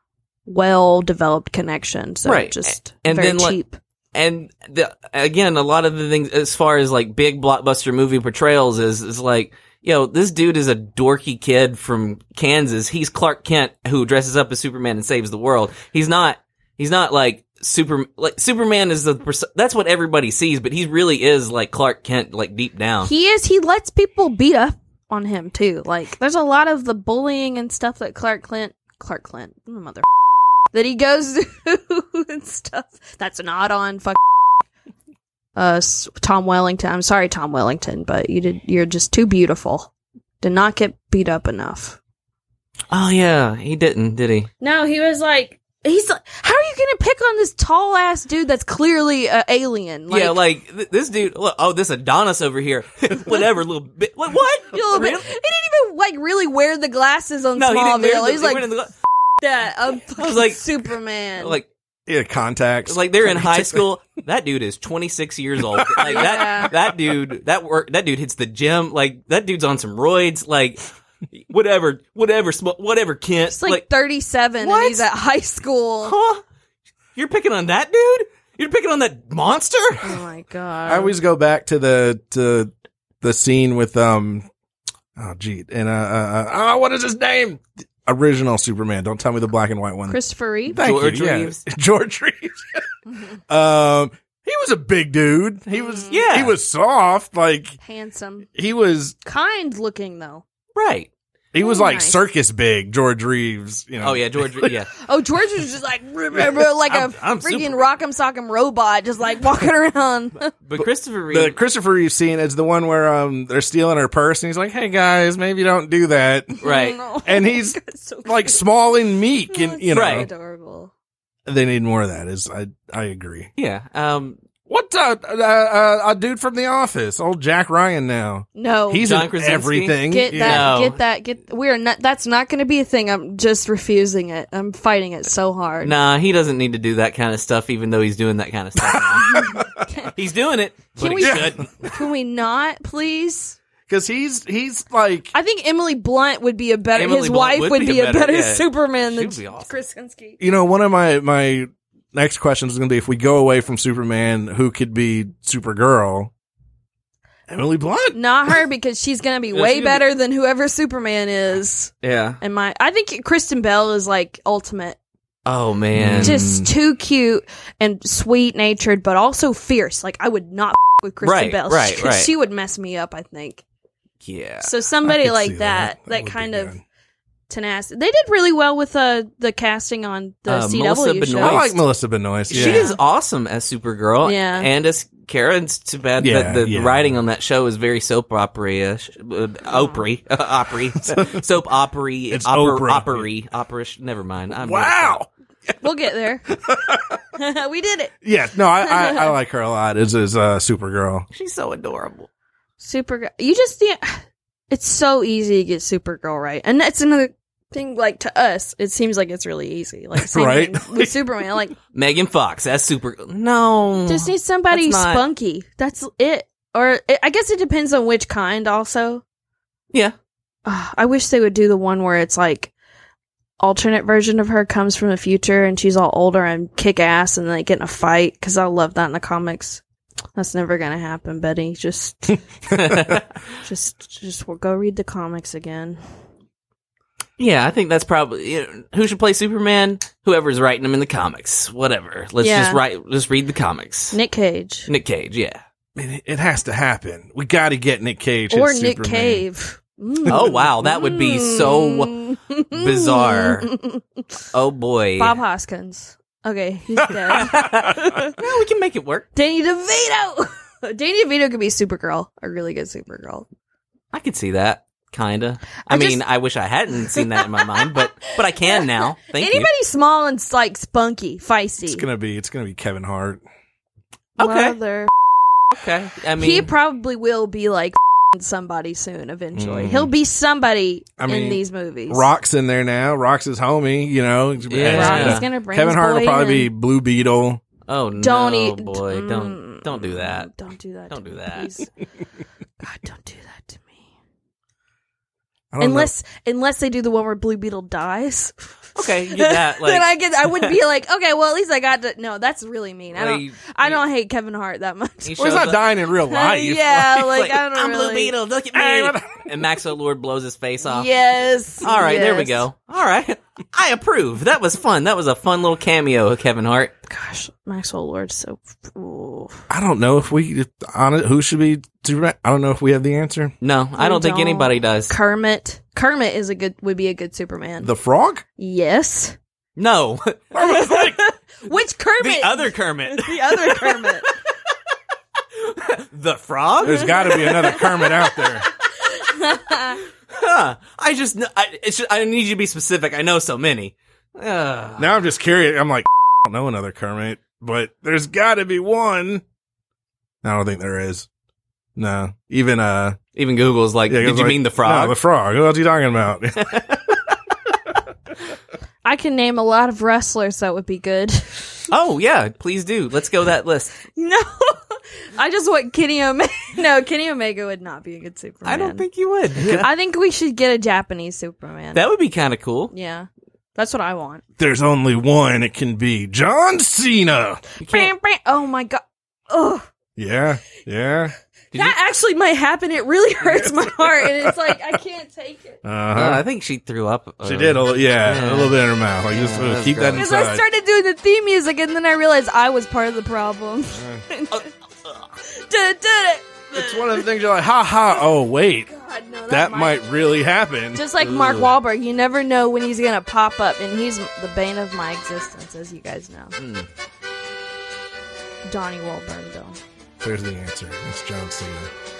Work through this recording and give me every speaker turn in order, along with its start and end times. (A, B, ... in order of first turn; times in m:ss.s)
0:00.4-0:03.8 A
0:02.2-0:03.6 B
0:04.1-0:23.1 B
0:23.0-0:30.0 A
0:30.7-0:34.2 A
0:35.6-0:39.9 A
0:40.4-0:42.0 A
0:42.9-0:44.5 B
0:44.6-0:50.4 A
0:50.1-0:55.3 B
0:54.7-0:58.7 A
0:57.6-0:58.9 B
0:59.4-1:01.6 A
1:00.2-1:00.6 B
1:01.4-1:01.7 B
1:02.1-1:03.9 C
1:02.9-1:13.8 B
1:05.7-1:06.5 C
1:06.0-1:06.7 A
1:13.5-1:16.1 A
1:14.6-1:15.0 B
1:16.0-1:16.4 B
1:17.1-1:20.2 B
1:20.0-1:21.2 A
1:20.9-1:24.4 C
1:25.2-1:30.2 C
1:30.1-1:30.8 A
1:30.7-1:32.8 C
1:30.7-1:31.6 B
1:33.5-1:37.8 C
1:35.7-1:36.2 A
1:36.1-1:36.5 B
1:37.8-1:38.5 A
1:38.5-1:39.1 C
1:39.2-1:40.4 A
1:40.8-1:41.1 B
1:41.5-1:44.8 C
1:41.6-1:42.2 A
1:44.0-1:44.9 B
1:45.0-1:50.5 A
1:46.8-1:47.9 B
1:50.6-1:51.6 B
1:50.8-1:56.6 C
1:56.6-1:58.6 A
1:56.6-1:57.0 B
1:57.2-2:00.3 C
1:59.5-2:00.9 A
1:59.9-2:00.3 B
2:01.5-2:03.5 C
2:03.6-2:04.4 B
2:04.7-2:10.7 C
2:08.6-2:09.2 A
2:09.0-2:11.0 B
2:10.1-2:15.9 A
2:15.8-2:21.6 B
2:18.8-2:19.8 C
2:19.1-2:20.1 A
2:21.0-2:23.6 A
2:21.2-2:22.0 C
2:23.9-2:25.3 C
2:25.3-2:30.4 A
2:26.9-2:29.7 B
2:30.4-2:36.3 C
2:37.5-2:38.6 C
2:38.1-2:45.0 A
2:39.5-2:40.0 B
2:42.0-2:42.4 B
2:45.4-2:46.7 B
2:45.9-2:46.6 C
2:46.2-2:53.6 A
2:51.2-2:52.3 B
2:54.2-2:54.7 B
2:54.6-2:56.7 A
2:55.0-2:56.8 C
2:57.5-3:01.7 A
3:00.5-3:01.8 B
3:01.4-3:02.9 C
3:02.5-3:15.2 B
3:02.5-3:03.0 A
3:04.2-3:04.7 A
3:06.2-3:07.1 C
3:09.7-3:10.0 A
3:11.0-3:11.3 C
3:12.3-3:13.3 C
3:14.6-3:15.7 C
3:15.8-3:16.4 A
3:16.5-3:17.2 C
3:17.4-3:18.1 A
3:18.2-3:21.3 C
3:18.8-3:19.3 A
3:21.3-3:22.3 B
3:22.8-3:31.7 A
3:30.2-3:31.2 C
3:31.9-3:35.2 B
3:34.1-3:39.2 A
3:40.6-3:42.7 A
3:43.6-3:49.8 A
3:50.4-3:52.4 A
3:52.7-3:53.3 B
3:53.6-3:56.0 A
3:57.4-4:04.2 B
4:02.4-4:02.8 A
4:04.1-4:04.9 A
4:04.9-4:05.6 B
4:06.0-4:09.4 C
4:08.5-4:14.2 A
4:10.2-4:12.1 B
4:12.7-4:13.7 B
4:14.5-4:15.4 B
4:15.2-4:18.4 A
4:17.0-4:17.9 C
4:17.3-4:19.2 B
4:19.3-4:23.4 A
4:24.1-4:29.7 B
4:25.9-4:26.2 A
4:27.1-4:32.0 A
4:31.8-4:33.4 C
4:34.4-4:34.8 B
4:34.4-4:35.1 A
4:35.7-4:36.7 B
4:36.4-4:42.3 A
4:39.5-4:40.1 C
4:41.2-4:47.6 C
4:44.7-4:45.4 B
4:44.8-4:46.7 A
4:47.9-4:50.5 B
4:48.2-4:51.9 A
4:51.1-4:51.7 B
4:52.8-4:54.0 A
4:55.7-4:56.1 C
4:55.8-5:08.3 A
4:58.9-5:00.8 B
5:03.1-5:04.0 B
5:05.2-5:05.8 B
5:05.4-5:07.2 C
5:07.0-5:11.1 B
5:08.7-5:09.4 C
5:10.8-5:12.6 A
5:11.8-5:16.9 B
5:17.1-5:19.6 A
5:19.7-5:23.5 C
5:23.6-5:25.1 B
5:24.0-5:27.9 A
5:27.8-5:28.4 C
5:28.6-5:29.4 A
5:29.8-5:30.6 B
5:30.5-5:31.2 C
5:30.5-5:34.3 A
5:32.2-5:34.2 B
5:35.6-5:37.8 B
5:36.8-5:38.7 C
5:36.8-5:40.0 A
5:40.3-5:45.2 B
5:45.0-5:49.4 C
5:50.4-5:51.3 C
5:52.0-5:53.2 C
5:53.3-5:55.2 B
5:54.1-5:56.7 C
5:56.6-5:57.2 B
5:59.0-6:01.9 A
6:01.9-6:04.0 B
6:04.1-6:09.0 A
6:08.6-6:09.8 B
6:09.6-6:12.1 A
6:11.9-6:12.9 B
6:12.9-6:14.4 A
6:14.6-6:17.6 C
6:17.8-6:18.1 B
6:17.8-6:19.8 A
6:20.2-6:21.3 C
6:21.7-6:25.8 A
6:23.4-6:24.7 C
6:25.8-6:26.4 C
6:26.1-6:30.2 B
6:27.4-6:30.6 C
6:30.2-6:34.7 A
6:33.9-6:34.2 C
6:35.4-6:37.3 A
6:36.7-6:38.9 C
6:38.9-6:40.0 A
6:39.5-6:41.0 C
6:40.9-6:46.5 A
6:41.2-6:41.7 B
6:46.6-6:46.9 B
6:48.6-6:49.8 A
6:50.2-6:51.9 C